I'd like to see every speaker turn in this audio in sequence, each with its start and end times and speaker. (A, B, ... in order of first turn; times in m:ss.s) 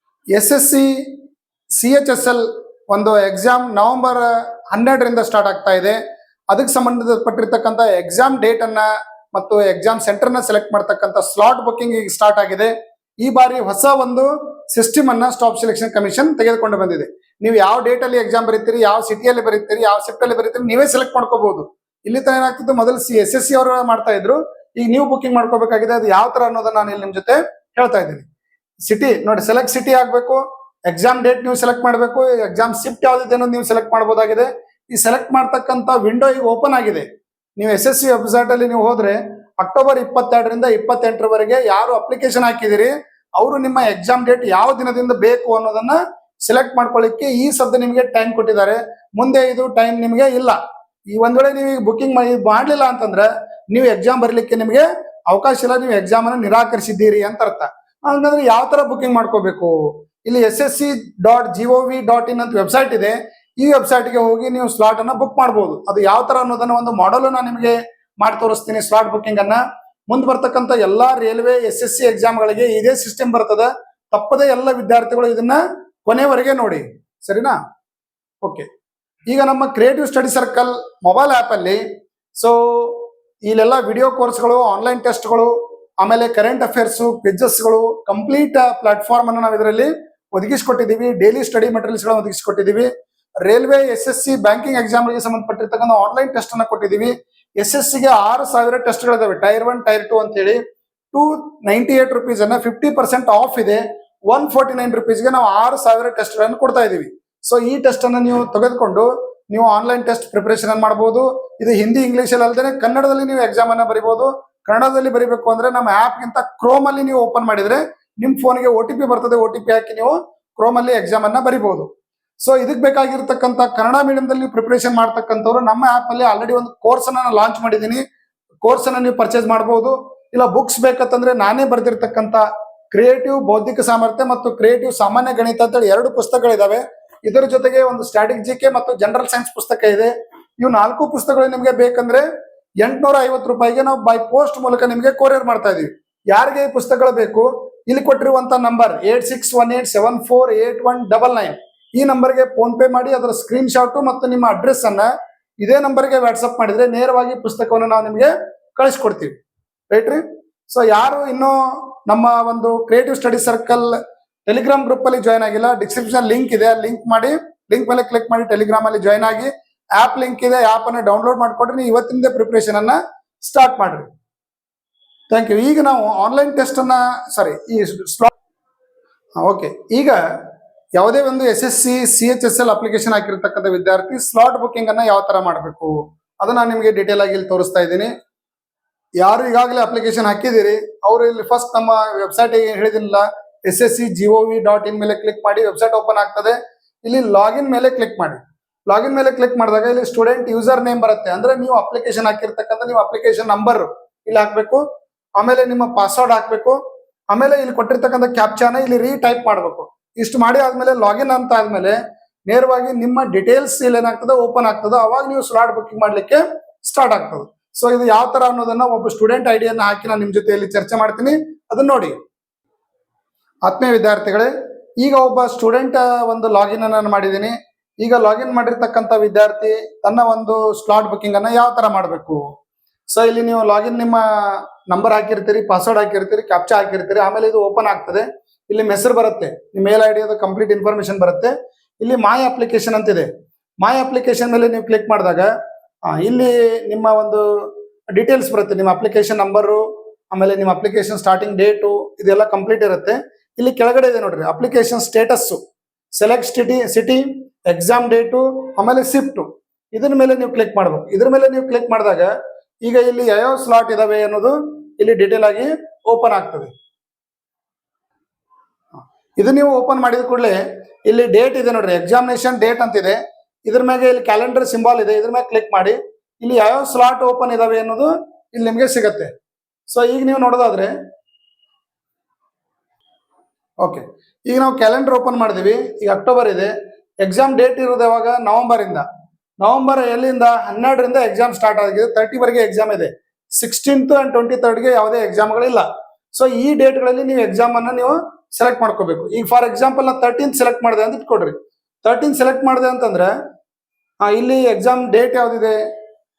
0:00.4-0:00.9 A
0:01.8-0:06.0 A
0:06.5-0:12.7 A
0:13.2-0:28.3 A
0:28.9-0:50.6 A
0:51.1-1:17.6 A
1:19.3-1:21.8 A
1:22.4-1:32.9 A
1:33.4-1:40.6 A
1:41.1-2:01.9 A
2:02.4-2:08.0 A
2:08.6-2:22.2 A
2:22.8-2:35.1 A
2:35.6-2:39.4 A
2:39.9-2:43.9 A
2:44.5-2:54.1 A
2:55.3-2:58.3 A
2:59.4-3:00.2 A
3:01.0-3:08.1 A
3:09.2-3:24.8 A
3:25.4-3:26.8 A
3:27.3-3:42.2 A
3:43.7-3:44.5 A
3:45.0-3:52.4 A
3:53.1-4:03.3 A
4:03.8-4:05.5 A
4:06.1-4:15.6 A
4:16.1-4:22.3 A
4:22.8-4:26.7 A
4:29.4-4:39.3 A
4:39.9-4:40.9 A
4:43.8-4:46.7 A
4:47.2-4:49.0 A
4:49.6-5:03.3 A
5:04.2-5:05.8 A